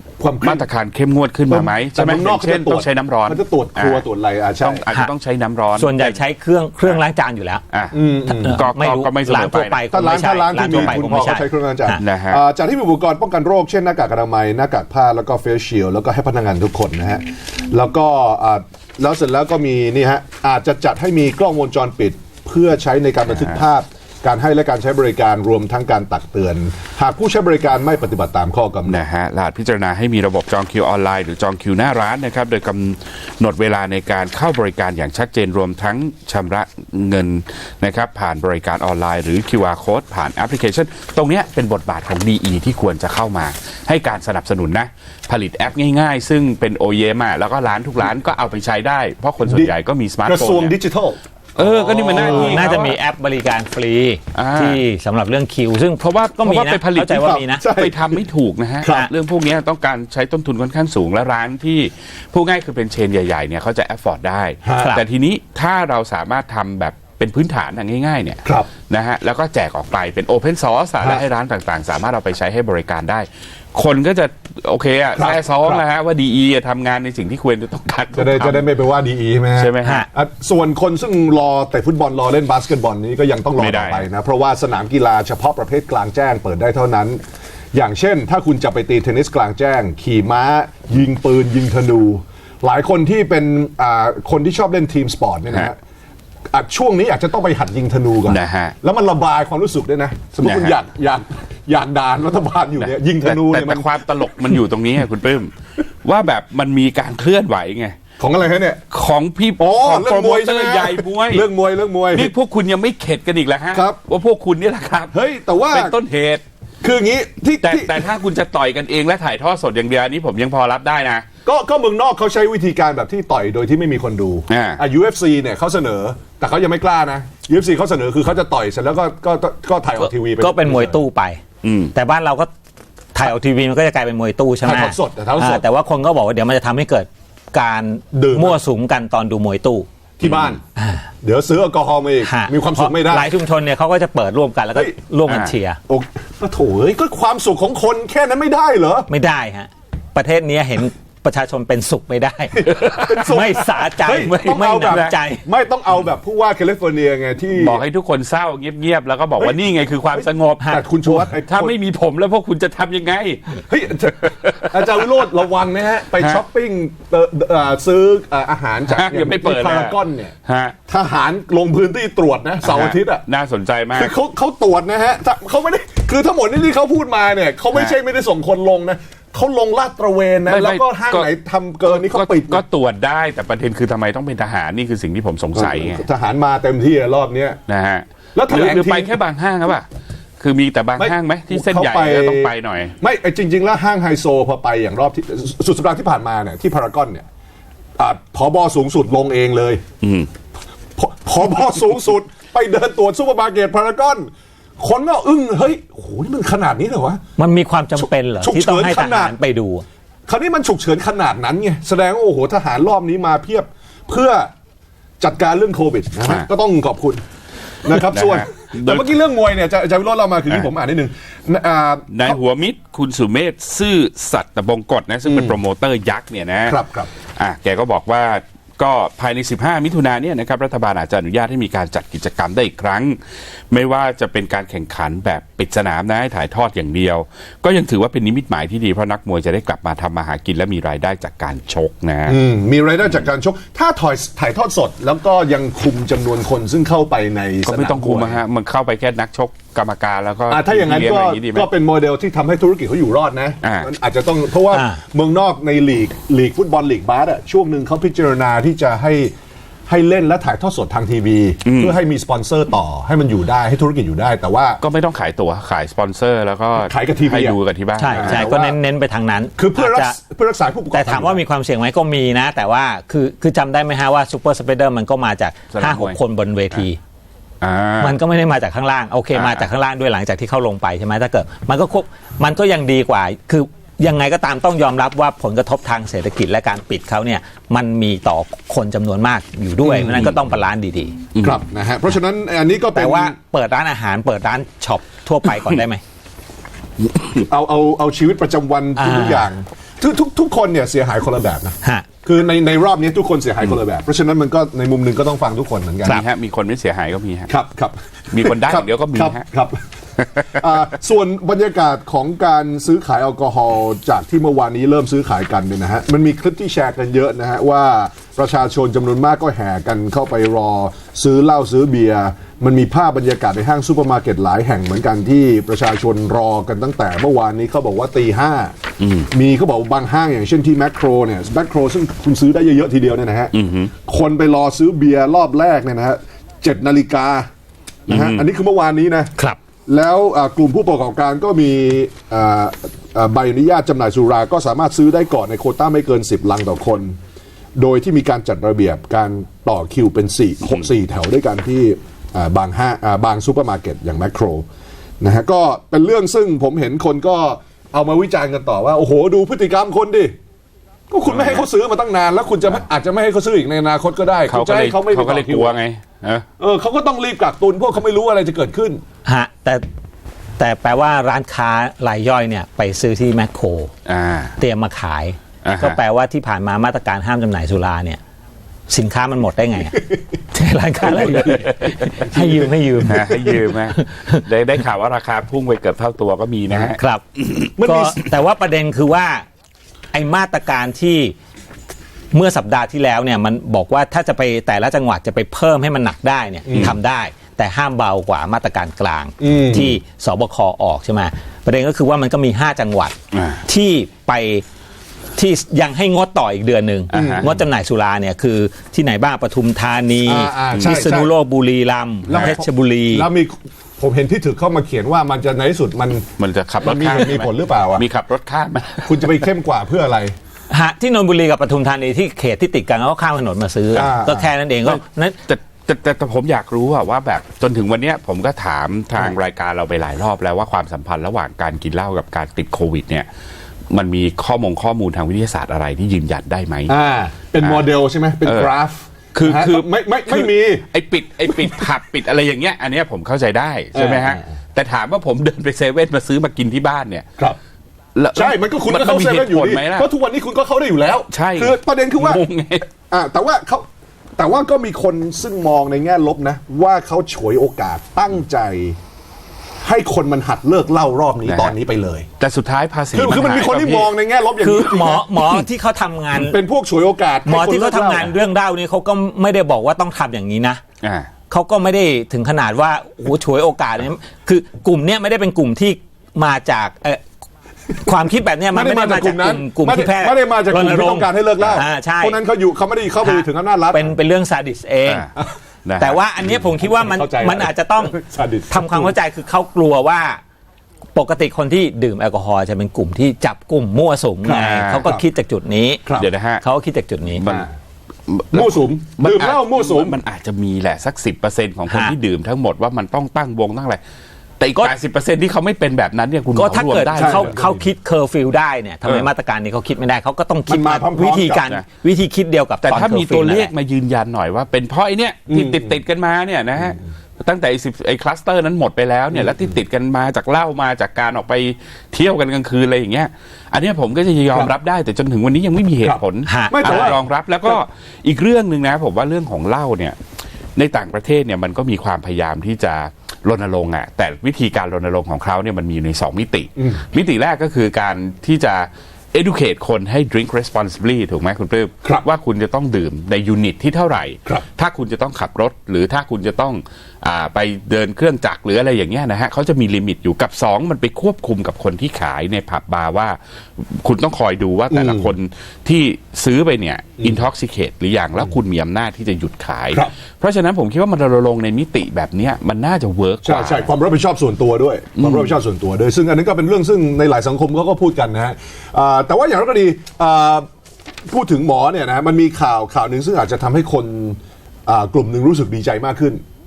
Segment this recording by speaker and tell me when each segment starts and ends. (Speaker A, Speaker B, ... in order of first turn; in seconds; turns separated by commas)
Speaker A: 0.2-0.7, Speaker B: 0.4-4.0, Speaker A: 1.5-4.9, Speaker B: 4.6-6.2, Speaker C: 5.8-7.6, Speaker B: 7.7-9.8, Speaker A: 7.9-8.6, Speaker C: 8.3-12.0, Speaker A: 9.9-29.0, Speaker B: 10.6-10.9, Speaker B: 12.0-12.4, Speaker B: 28.9-50.8, Speaker A: 49.5-49.7, Speaker A: 50.2-52.9, Speaker B: 51.6-53.0, Speaker C: 52.1-57.6, Speaker B: 54.4-54.8, Speaker B: 56.0-78.7, Speaker A: 57.1-58.2, Speaker A: 58.8-59.1, Speaker A: 64.6-65.0, Speaker A: 75.2-75.8, Speaker A: 78.2-87.2, Speaker B: 79.6-80.1, Speaker B: 83.6-84.0, Speaker A: 87.7-95.8, Speaker A: 96.5-104.6, Speaker B: 98.3-98.8, Speaker B: 100.4-100.8, Speaker B: 102.8-105.5, Speaker B: 106.0-108.0, Speaker A: 108.2-108.8, Speaker B: 108.9-111.5, Speaker A: 109.6-112.3, Speaker B: 112.1-115.2, Speaker A: 113.7-114.0, Speaker A: 115.1-116.0, Speaker B: 115.7-116.4, Speaker A: 116.8-118.1, Speaker B: 117.6-121.3, Speaker A: 121.5-131.0, Speaker B: 124.5-124.8, Speaker C: 130.0-131.4, Speaker B: 131.6-131.9, Speaker C: 131.9-132.5, Speaker C: 133.2-139.9, Speaker A: 134.6-135.6, Speaker A: 138.1-138.6, Speaker A: 140.2-140.6, Speaker B: 140.2-140.6, Speaker C: 140.8-141.1, Speaker A: 141.2-143.3, Speaker C: 142.2-145.8, Speaker B: 145.3-145.5, Speaker A: 145.9-149.1, Speaker C: 149.1-155.4, Speaker A: 152.6-157.8, Speaker B: 152.7-153.2, Speaker B: 154.1-155.1, Speaker B: 157.6-163.6, Speaker A: 160.1-161.8, Speaker C: 160.6-160.9, Speaker A: 163.7-170.3, Speaker B: 164.2-165.1, Speaker B: 168.9-170.8, Speaker A: 170.9-173.2, Speaker B: 172.6-174.1, Speaker A: 173.9-182.6, Speaker B: 180.5-181.3, Speaker B: 181.9-186.1, Speaker A: 185.6-187.6, Speaker B: 187.7-189.9, Speaker A: 188.3-189.2, Speaker B: 190.4-192.9, Speaker A: 191.0-197.3, Speaker A: 198.0-199.8, Speaker B: 200.0-200.3, Speaker A: 201.0-207.2, Speaker C: 207.4-209.8, Speaker A: 208.4-209.3, Speaker A: 210.3-214.5, Speaker A: 215.2-217.2, Speaker A: 217.8-222.4, Speaker B: 217.9-219.1, Speaker B: 222.1-226.8, Speaker A: 225.3-225.6, Speaker A: 226.7-227.1, Speaker B: 227.4-233.2, Speaker B: 233.7-242.4, Speaker A: 242.3-248.4, Speaker B: 247.7-251.7, Speaker A: 250.5-259.3, Speaker B: 253.6-253.9, Speaker C: 254.7-255.0, Speaker A: 259.9-264.8, Speaker B: 261.6-262.0, Speaker B: 264.8-268.5, Speaker A: 266.8-267.6, Speaker C: 268.0-270.2, Speaker A: 268.1-268.8, Speaker A: 269.6-271.4, Speaker C: 270.9-277.0, Speaker B: 275.7-276.2, Speaker B: 277.6-278.2, Speaker C: 278.0-291.2, Speaker B: 279.3-279.6, Speaker B: 290.1-290.4, Speaker B: 291.4-291.6, Speaker A: 291.4-293.4, Speaker C: 292.9-296.0, Speaker A: 297.3-306.2, Speaker C: 299.0-299.5, Speaker B: 306.1-307.5, Speaker A: 307.5-309.8, Speaker B: 308.3-309.4, Speaker B: 310.2-310.5, Speaker A: 310.5-328.8, Speaker B: 329.0-329.3, Speaker A: 329.3-337.5, Speaker B: 333.5-333.9, Speaker A: 338.1-339.3, Speaker B: 338.1-338.4, Speaker A: 339.9-347.2, Speaker A: 347.8-354.7, Speaker A: 355.2-360.4, Speaker A: 361.1-365.8, Speaker B: 361.3-361.7, Speaker B: 364.5-366.5, Speaker A: 366.6-369.0, Speaker C: 369.2-369.8, Speaker C: 370.6-373.9, Speaker B: 374.1-374.6, Speaker C: 374.6-378.2, Speaker B: 375.6-376.0, Speaker C: 378.9-384.5, Speaker B: 381.2-382.1, Speaker A: 381.2-381.6, Speaker A: 382.2-383.7, Speaker B: 383.0-387.0, Speaker C: 386.9-387.2, Speaker A: 387.8-388.2, Speaker C: 387.8-389.4, Speaker C: 390.1-391.4, Speaker C: 392.3-404.6, Speaker A: 396.6-397.0, Speaker A: 399.4-400.0, Speaker B: 403.3-403.6, Speaker C: 405.4-413.3, Speaker B: 407.1-407.5, Speaker A: 407.1-407.6, Speaker A: 410.2-411.3, Speaker A: 412.3-416.3, Speaker B: 412.3-412.6, Speaker B: 416.4-419.4, Speaker A: 416.8-418.0, Speaker A: 419.1-420.4, Speaker C: 420.7-425.4, Speaker A: 423.9-424.5, Speaker B: 424.9-433.3, Speaker B: 433.9-436.9, Speaker A: 436.9-440.9, Speaker B: 437.6-437.9, Speaker B: 438.4-438.7, Speaker B: 439.3-447.3, Speaker A: 441.5-441.9, Speaker A: 443.9-444.4, Speaker B: 448.2-450.1, Speaker A: 448.4-452.4, Speaker B: 451.3-452.9, Speaker A: 453.1-459.0, Speaker A: 459.8-462.3, Speaker B: 461.5-461.8, Speaker B: 462.4-464.1, Speaker A: 463.1-465.6, Speaker C: 464.6-466.6, Speaker A: 466.3-468.4, Speaker C: 467.5-470.8, Speaker B: 471.0-471.3, Speaker C: 471.5-477.2, Speaker C: 478.0-482.4, Speaker A: 478.7-484.1, Speaker C: 483.2-485.2, Speaker B: 485.9-486.2, Speaker C: 486.0-488.2, Speaker A: 486.4-489.1, Speaker C: 488.7-490.4, Speaker C: 491.1-496.0, Speaker A: 494.5-495.2, Speaker B: 494.5-495.1, Speaker B: 496.2-496.6, Speaker C: 496.6-497.4, Speaker B: 497.4-497.7, Speaker B: 498.3-504.0, Speaker A: 498.5-500.2, Speaker C: 501.9-502.1, Speaker B: 504.6-507.6, Speaker C: 506.6-513.7, Speaker A: 507.2-507.9, Speaker A: 510.7-511.6, Speaker B: 512.8-530.2, Speaker A: 515.5-516.0, Speaker A: 526.0-527.2, Speaker C: 526.5-527.2, Speaker B: 530.8-563.9, Speaker A: 536.8-537.0, Speaker A: 554.9-555.3, Speaker A: 563.4-570.7, Speaker B: 565.2-565.5, Speaker A: 571.3-576.4